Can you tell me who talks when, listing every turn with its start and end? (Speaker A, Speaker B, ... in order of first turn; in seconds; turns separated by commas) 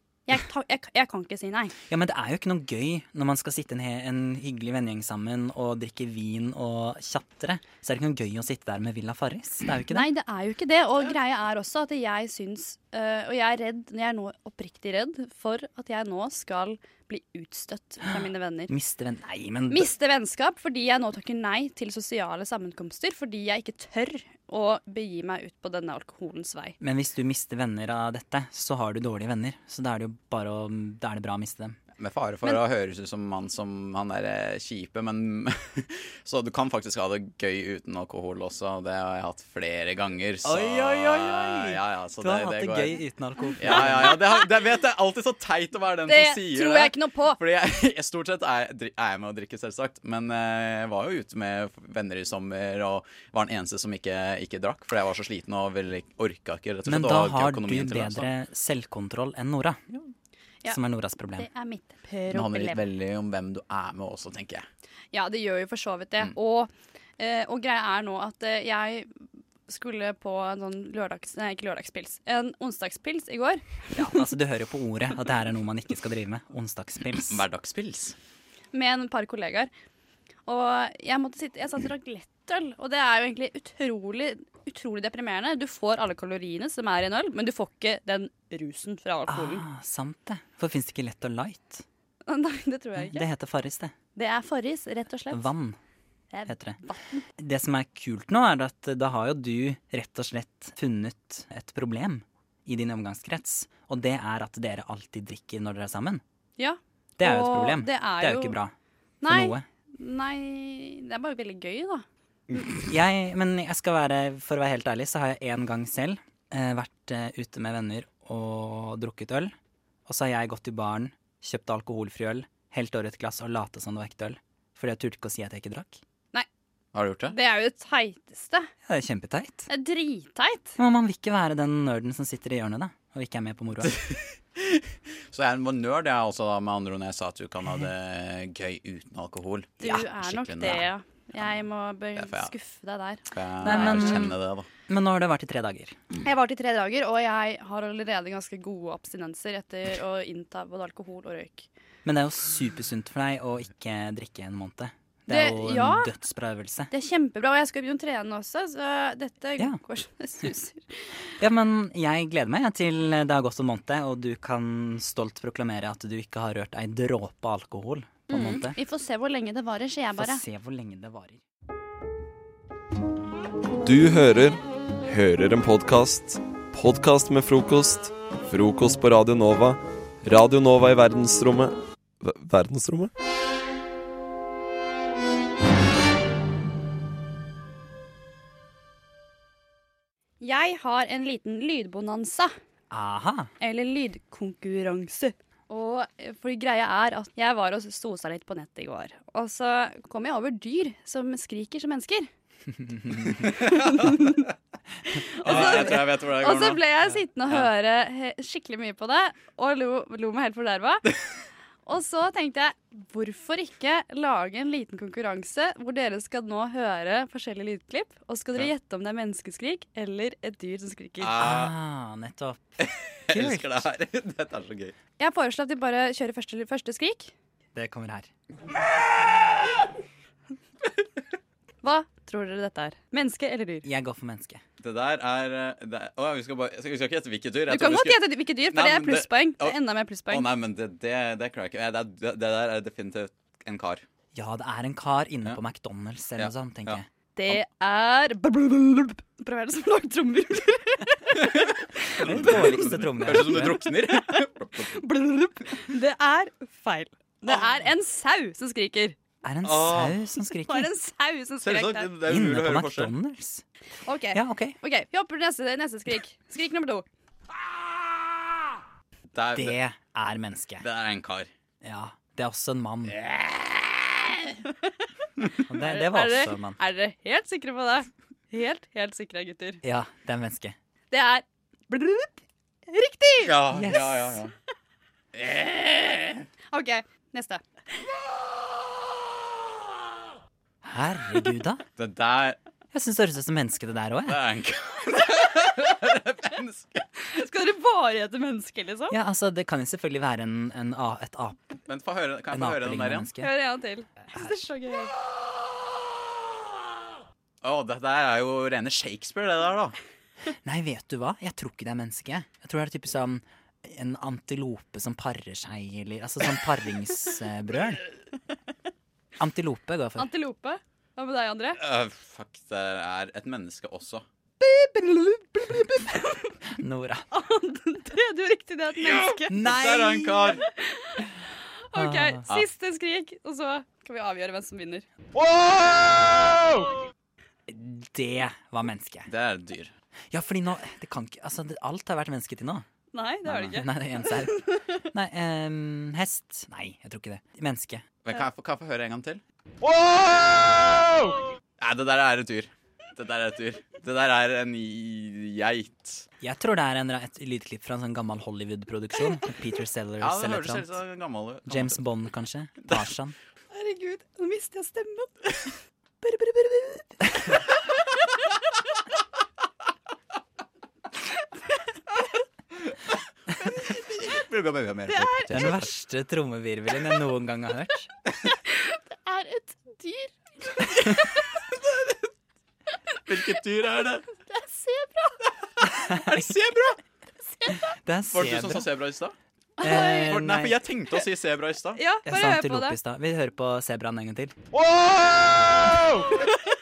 Speaker A: 0.3-1.7, Speaker B: 1.9-10.1, Speaker A: 9.9-18.7, Speaker B: 18.1-19.9, Speaker A: 19.7-26.8, Speaker B: 26.8-31.8, Speaker C: 31.9-43.0, Speaker B: 40.5-44.1, Speaker C: 43.6-58.3, Speaker A: 43.6-44.5, Speaker A: 46.0-47.4, Speaker B: 56.9-59.8, Speaker B: 60.6-61.5, Speaker A: 61.4-62.8, Speaker C: 62.3-64.6, Speaker A: 65.1-69.1, Speaker A: 69.7-74.0, Speaker B: 73.9-77.4, Speaker C: 77.3-78.2, Speaker A: 78.7-79.7, Speaker A: 80.5-89.6, Speaker B: 89.3-91.8, Speaker A: 92.3-93.2, Speaker B: 93.0-93.9, Speaker A: 94.2-95.5, Speaker B: 95.3-95.8, Speaker A: 96.3-97.2, Speaker B: 96.5-96.8, Speaker B: 97.4-106.2, Speaker A: 106.6-108.6, Speaker B: 107.2-108.7, Speaker A: 109.2-112.0, Speaker B: 109.3-109.6, Speaker B: 112.8-119.5, Speaker B: 120.0-126.0, Speaker C: 126.9-127.3, Speaker A: 127.3-128.7, Speaker B: 128.8-129.7, Speaker A: 129.7-130.8, Speaker B: 130.8-133.9, Speaker C: 133.9-141.6, Speaker A: 139.8-144.3, Speaker C: 142.1-142.5, Speaker C: 143.3-144.7, Speaker B: 143.6-144.3, Speaker B: 144.9-145.9, Speaker A: 146.2-151.7, Speaker B: 152.0-156.9, Speaker A: 155.3-156.1, Speaker A: 156.9-161.1, Speaker B: 161.4-168.8, Speaker A: 168.3-170.4, Speaker B: 170.2-171.4, Speaker D: 173.8-183.1, Speaker A: 190.4-192.5, Speaker B: 192.9-193.5, Speaker A: 193.6-202.3, Speaker A: 203.5-204.4, Speaker C: 203.6-204.1, Speaker A: 205.1-211.0, Speaker C: 205.4-207.7, Speaker A: 211.8-221.5, Speaker C: 221.2-221.7, Speaker B: 221.4-222.6, Speaker C: 222.8-224.9, Speaker B: 223.3-223.8, Speaker A: 225.2-227.3, Speaker B: 227.7-228.3, Speaker A: 231.8-233.9, Speaker B: 233.8-234.6, Speaker C: 234.8-244.0, Speaker A: 237.7-240.5, Speaker B: 244.3-247.1, Speaker C: 246.4-247.6, Speaker A: 247.3-251.7, Speaker C: 251.4-255.0, Speaker A: 252.2-252.5, Speaker B: 252.3-253.8, Speaker A: 253.3-259.2, Speaker B: 259.4-260.9, Speaker C: 259.6-260.2, Speaker A: 260.5-262.2, Speaker C: 261.6-263.2, Speaker B: 262.3-263.6, Speaker A: 264.0-267.0, Speaker B: 264.3-264.8, Speaker C: 269.3-269.8, Speaker B: 269.6-270.8, Speaker C: 270.8-271.5, Speaker B: 271.8-273.1, Speaker C: 273.1-274.0, Speaker B: 275.7-276.8, Speaker A: 275.7-279.8, Speaker B: 279.8-280.7, Speaker A: 281.1-283.7, Speaker C: 283.4-284.5, Speaker B: 283.8-284.1, Speaker C: 285.3-286.4, Speaker A: 286.7-287.6, Speaker B: 290.8-291.8, Speaker C: 292.0-292.6, Speaker B: 292.9-294.4, Speaker C: 294.3-297.0, Speaker A: 297.3-299.1, Speaker B: 299.1-301.7, Speaker C: 301.9-303.3, Speaker B: 302.5-303.5, Speaker A: 303.3-305.1, Speaker C: 307.6-309.9, Speaker B: 310.6-318.0, Speaker B: 319.4-320.3, Speaker A: 320.2-321.8, Speaker C: 321.8-324.2, Speaker A: 324.6-326.5, Speaker B: 326.8-327.2, Speaker A: 327.3-331.2, Speaker C: 328.9-330.6, Speaker B: 329.5-330.1, Speaker A: 331.9-335.1, Speaker B: 331.9-332.4, Speaker B: 337.7-339.3, Speaker C: 339.3-339.9, Speaker B: 340.3-342.8, Speaker A: 343.1-345.0, Speaker B: 343.4-344.6, Speaker B: 345.1-348.0, Speaker C: 348.2-349.4, Speaker C: 351.8-356.2, Speaker B: 356.4-360.9, Speaker C: 360.2-362.0, Speaker B: 361.7-363.3, Speaker C: 362.8-363.1, Speaker A: 363.7-367.6, Speaker C: 373.6-375.9, Speaker A: 375.1-375.5, Speaker B: 375.5-378.1, Speaker A: 378.6-381.3, Speaker C: 381.9-382.1, Speaker C: 383.2-384.2, Speaker A: 384.4-385.3, Speaker C: 386.2-387.0, Speaker B: 388.0-388.8, Speaker C: 388.3-389.3, Speaker A: 389.8-390.5, Speaker B: 389.8-390.7, Speaker C: 390.2-392.0, Speaker A: 391.9-393.0, Speaker B: 392.2-394.5, Speaker C: 395.3-396.3